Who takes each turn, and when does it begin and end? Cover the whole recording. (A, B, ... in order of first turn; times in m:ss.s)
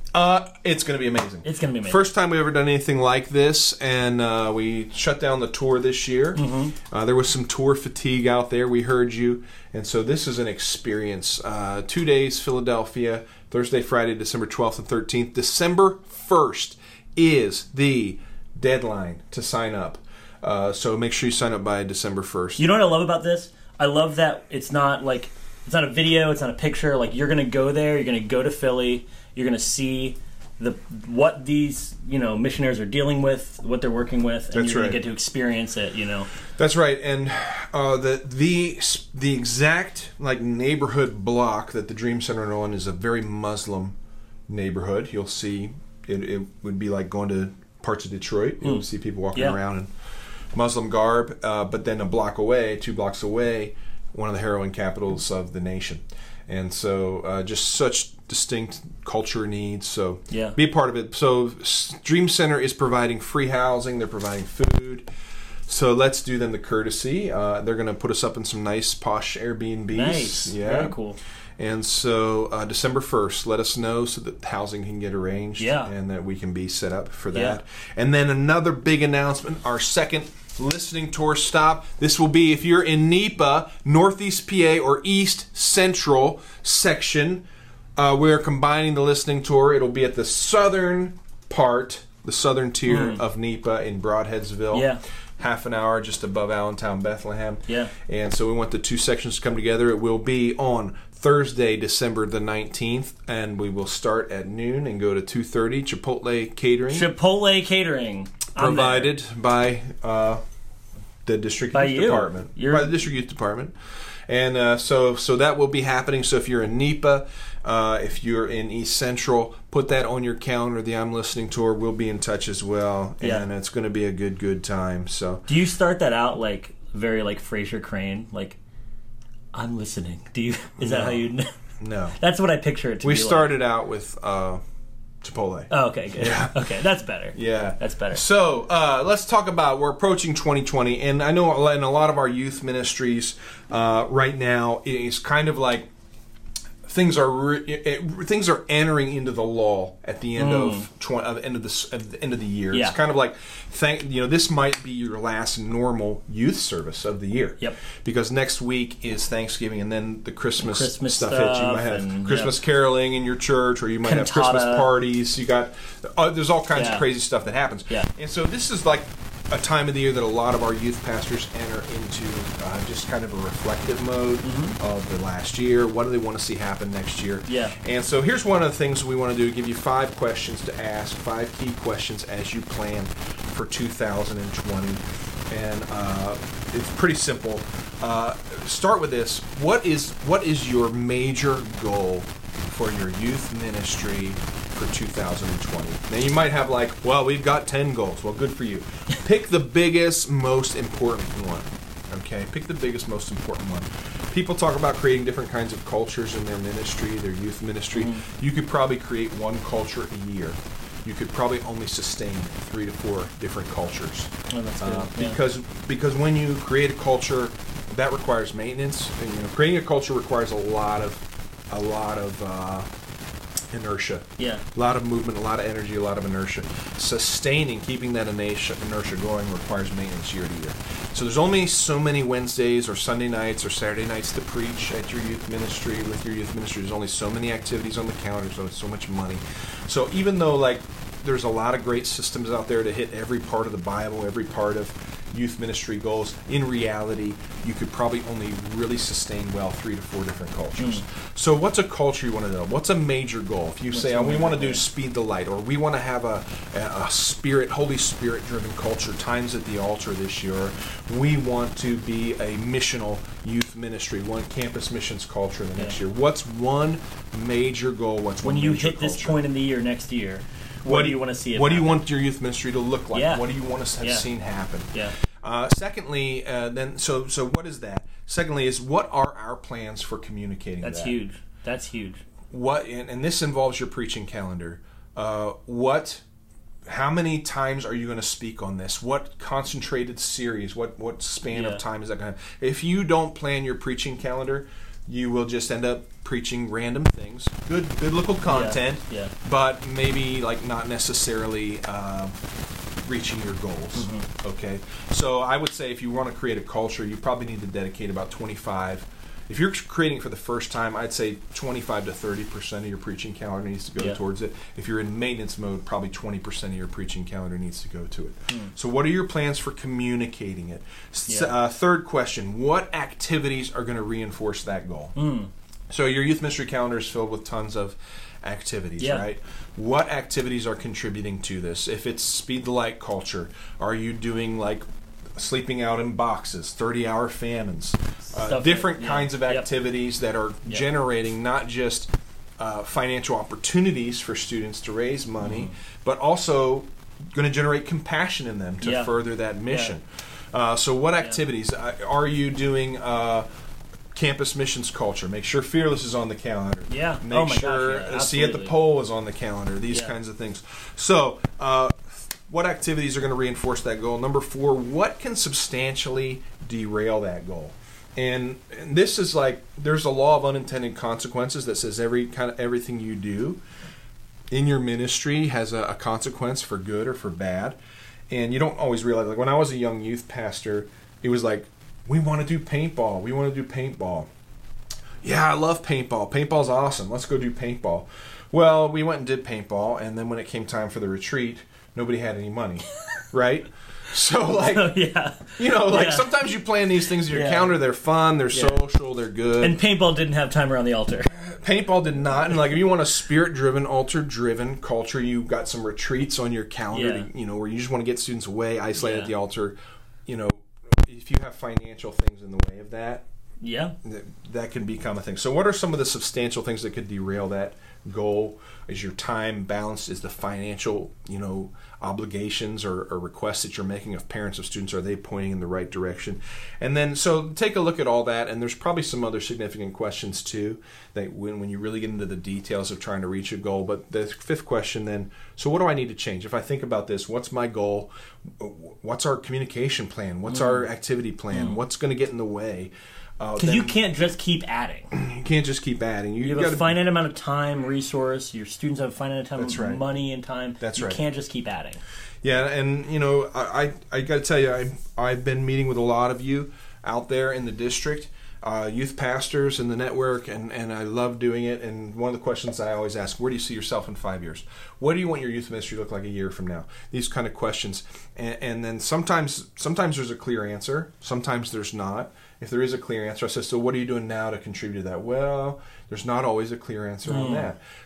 0:00.1-0:22.6 A
0:01.4-0:02.0 B
0:06.4-0:06.7 B
0:22.6-0:36.3 B
0:34.5-0:35.0 A
0:36.6-0:44.0 A
0:44.5-0:49.9 A
0:48.6-0:49.6 B
0:50.5-1:05.1 A
1:00.3-1:00.6 B
1:05.7-1:11.0 A
1:09.9-1:11.2 B
1:11.6-1:27.4 A
1:15.6-1:15.9 B
1:17.3-1:17.6 B
1:28.0-1:47.1 A
1:32.9-1:33.2 B
1:34.7-1:35.0 B
1:46.9-1:49.1 B
1:48.6-1:50.4 A
1:51.2-1:53.7 A
1:51.7-1:52.9 B
1:54.3-2:05.4 A
2:03.2-2:03.5 B
2:05.5-2:08.6 B
2:09.5-2:11.5 B
2:10.8-2:11.3 A
2:11.8-2:12.2 A
2:12.2-2:13.5 B
2:13.0-2:14.6 A
2:15.2-2:16.6 A
2:15.7-2:18.2 B
2:17.3-2:25.9 A
2:26.8-3:42.9 A
2:30.4-2:30.9 B
2:32.7-2:33.0 B
2:40.6-2:42.6 B
2:44.0-2:44.9 B
2:46.7-2:47.0 B
2:54.4-2:54.8 B
2:57.5-2:57.8 B
3:27.9-3:28.2 B
3:34.5-3:35.4 B
3:43.7-4:29.4 A
3:44.4-3:44.6 B
4:10.8-4:11.0 B
4:13.9-4:14.8 B
4:28.4-4:32.0 B
4:30.8-4:41.2 A
4:33.1-4:33.4 B
4:34.0-4:34.3 B
4:40.8-4:42.2 B
4:42.5-4:46.2 A
4:46.9-5:02.3 A
4:51.5-4:51.8 B
4:58.5-4:59.3 B
5:03.0-5:25.2 A
5:04.0-5:04.3 B
5:21.3-5:21.5 B
5:25.2-5:25.5 B
5:25.9-5:53.5 A
5:29.0-5:29.2 B
5:38.3-5:39.7 B
5:45.4-5:45.7 B
5:48.8-5:50.0 B
5:54.1-6:13.6 A
5:56.9-5:58.7 B
5:59.9-6:00.1 B
6:14.5-6:17.8 A
6:18.3-6:24.3 A
6:25.2-6:35.0 A
6:34.5-6:36.5 B
6:35.6-6:39.8 A
6:37.2-6:37.8 B
6:38.5-6:38.8 B
6:39.6-6:41.3 B
6:41.3-6:53.2 A
6:46.9-6:47.3 B
6:49.0-6:49.3 B
6:53.6-6:53.9 B
6:54.0-7:24.0 A
7:20.5-7:20.9 B
7:21.5-7:21.8 B
7:23.6-7:25.1 B
7:25.1-7:27.0 A
7:26.4-7:32.0 B
7:29.6-7:30.1 A
7:30.8-7:31.2 A
7:32.4-7:57.8 A
7:57.2-7:57.7 B